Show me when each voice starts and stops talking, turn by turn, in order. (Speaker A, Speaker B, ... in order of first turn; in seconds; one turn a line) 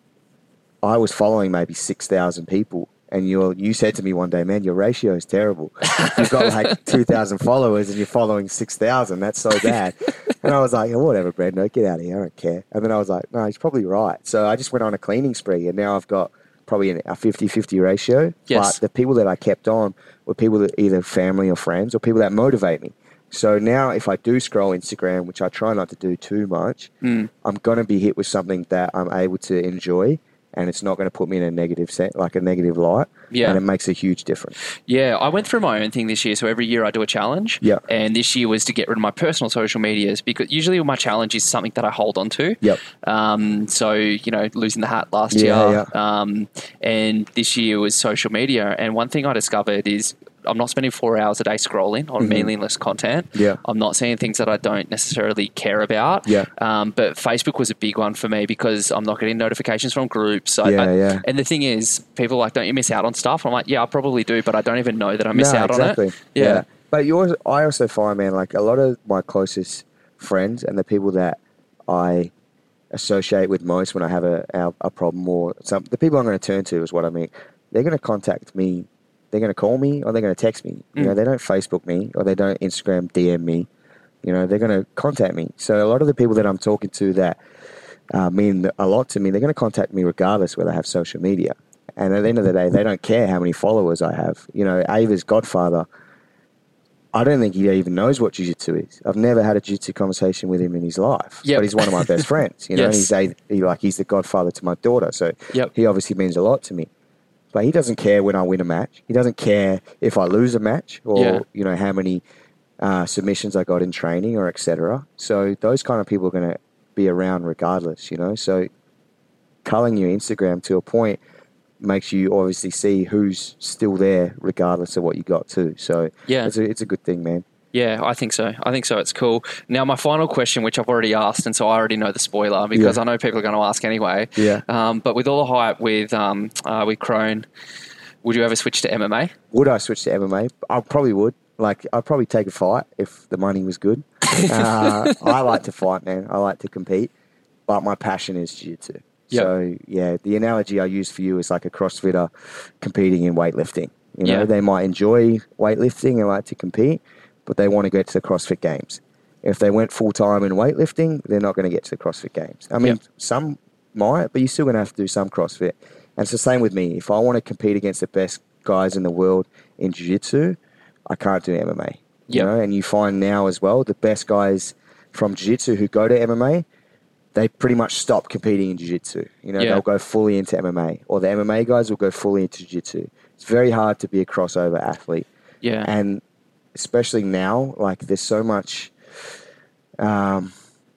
Speaker A: 0.8-26.9
Speaker B: 5.9-6.8
Speaker B: 18.5-18.8
Speaker B: 27.0-27.3
Speaker A: 27.4-34.5
Speaker B: 33.3-33.6
Speaker B: 34.9-66.6
Speaker A: 45.3-45.9
Speaker A: 52.2-52.5
Speaker A: 53.3-53.6
Speaker A: 60.6-61.2
Speaker A: 65.3-72.3
Speaker A: 72.9-83.7
Speaker A: 84.2-87.4
Speaker A: 88.1-95.8
Speaker A: 97.1-106.9
Speaker B: 101.4-103.1
Speaker A: 107.5-112.2
Speaker B: 111.1-111.4
Speaker A: 112.8-118.7
Speaker A: 119.6-121.2
Speaker A: 121.8-127.4
Speaker B: 126.3-126.5
Speaker B: 127.7-137.5
Speaker A: 132.7-133.0
Speaker A: 134.3-134.6
Speaker B: 138.2-139.3
Speaker A: 139.5-147.1
Speaker B: 144.3-145.2
Speaker A: 147.7-170.6
Speaker B: 154.2-154.5
Speaker A: 171.1-176.6
Speaker A: 177.3-185.3
Speaker B: 179.6-179.8
Speaker B: 185.6-185.9
Speaker A: 185.8-186.2
Speaker A: 186.7-188.9
Speaker A: 190.0-190.5